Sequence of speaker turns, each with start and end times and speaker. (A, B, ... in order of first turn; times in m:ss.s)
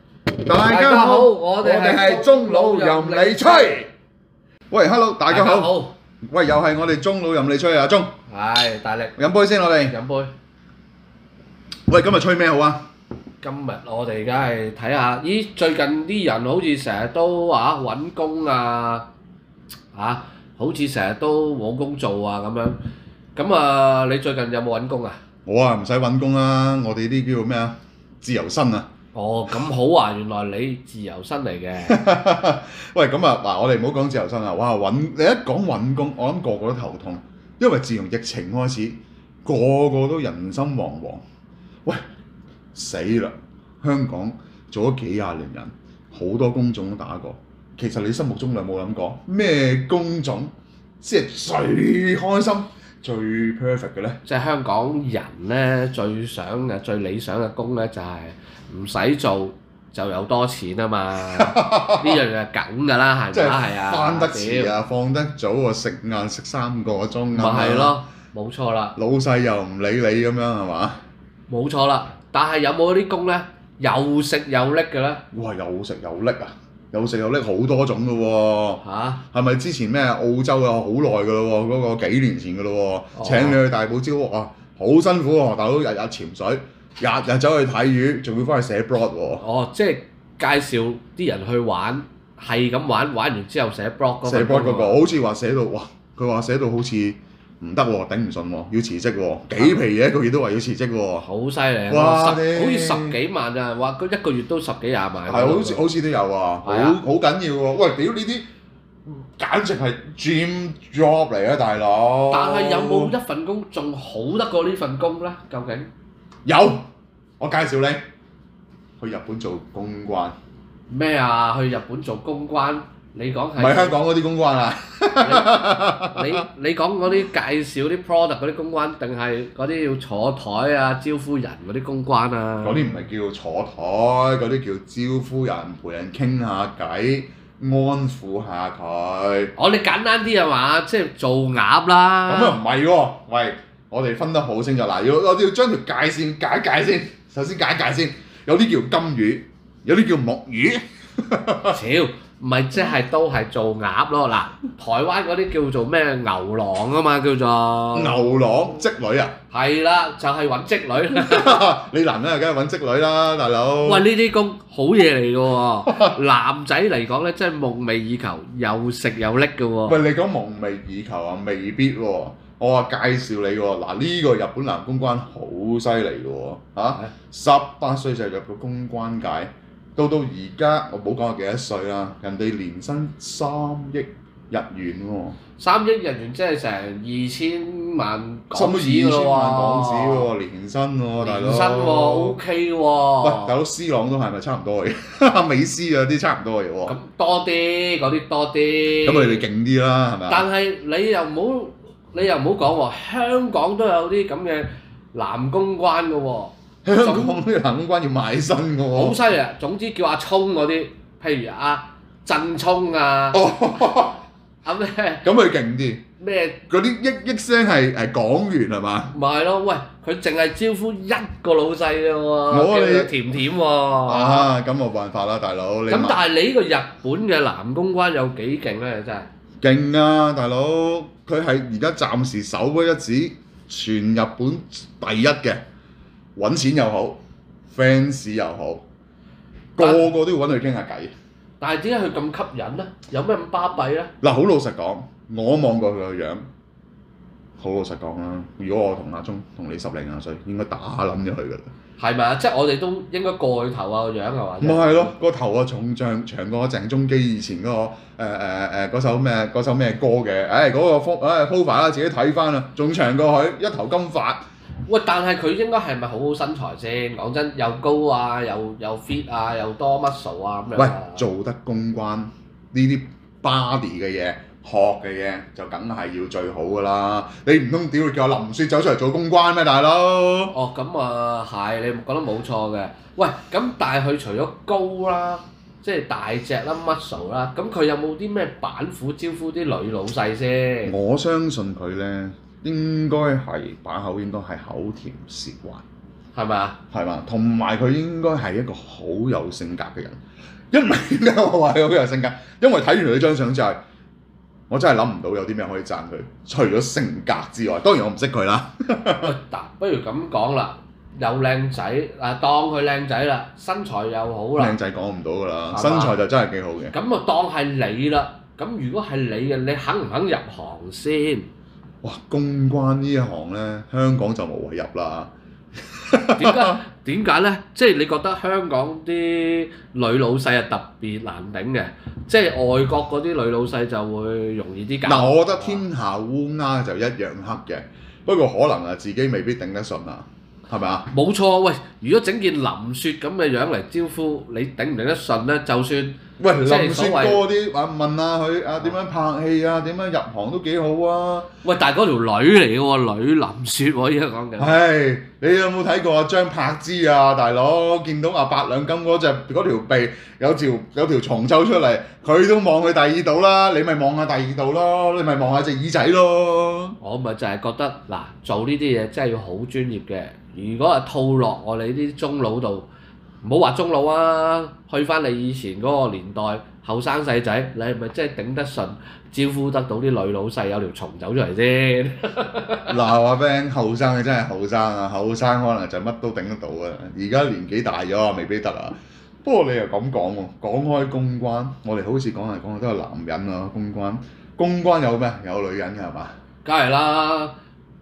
0:00.4-0:03.8 A
0:00.5-0:03.9 B
0:04.7-0:08.1 A
0:05.3-0:05.9 B
0:08.3-0:09.1 B
0:09.2-0:10.0 A
0:09.9-0:10.3 B
0:11.9-0:12.8 A
0:13.4-0:19.0 B
0:19.9-0:22.8 B
0:23.4-0:25.2 B
0:25.4-0:28.9 A
0:29.1-0:32.0 B
0:31.8-0:41.2 A
0:42.7-0:54.2 A
0:54.2-1:04.7 B
1:01.3-1:02.2 A
1:03.3-1:08.0 A
1:07.3-1:08.9 B
1:09.0-1:11.0 A
1:11.5-1:15.2 B
1:15.3-1:29.4 A
1:18.8-1:19.2 B
1:23.2-1:23.6 B
1:29.4-1:35.0 B
1:34.2-1:41.3 A
1:41.2-1:45.9 B
1:41.9-1:43.2 A
1:45.3-1:48.4 A
1:46.6-1:47.0 B
1:49.1-1:53.1 A
1:52.3-1:55.9 B
1:56.4-1:58.0 A
1:59.0-2:00.3 A
2:00.9-2:04.0 B
2:03.6-2:06.4 A
2:05.2-2:12.8 B
2:12.6-2:19.5 A
2:19.6-2:22.6 B
2:22.3-2:31.8 A
2:31.7-2:38.2 B
2:37.9-2:39.3 A
2:39.5-2:41.6 B
2:41.1-2:44.1 A
2:43.8-2:50.0 B
2:49.8-3:05.4 A
3:05.6-3:10.3 B
3:08.5-3:12.4 A
3:11.2-3:13.5 B
3:13.2-3:17.0 A
3:16.9-3:19.4 B
3:19.0-3:20.5 A
3:20.3-3:27.4 B
3:26.8-3:29.2 A
3:28.9-3:33.4 B
3:33.3-3:34.2 A
3:34.6-3:35.3 B
3:35.2-3:36.0 A
3:36.2-3:36.6 B
3:36.7-3:39.1 A
3:39.1-3:44.5 B
3:42.5-3:43.2 A
3:44.0-3:46.2 A
3:45.9-3:49.3 B
3:49.6-3:55.6 A
3:56.4-3:58.8 A
3:59.8-4:01.1 A
3:59.8-4:00.1 B
4:01.6-4:04.1 B
4:04.2-4:06.4 A
4:07.6-4:11.7 A
4:12.0-4:15.1 B
4:14.6-4:24.4 A
4:24.9-4:31.2 B
4:30.8-4:40.5 A
4:40.5-4:50.9 B
4:50.8-4:55.8 A
4:56.3-4:56.8 B
4:56.9-5:00.2 A
5:00.7-5:03.8 A
5:04.7-5:09.4 A
5:09.2-5:14.8 B
5:14.6-5:17.0 A
5:15.7-5:16.2 B
5:16.9-5:21.5 B
5:22.0-5:25.3 A
5:25.9-5:26.8 A
5:26.4-5:35.8 B
5:35.0-5:41.1 A
5:41.1-5:47.4 B
5:46.4-5:51.5 A
5:51.6-5:54.8 B
5:54.6-6:07.0 A
6:07.0-6:12.9 B
6:13.4-6:22.9 B
6:22.9-6:36.3 A
6:36.6-6:37.5 B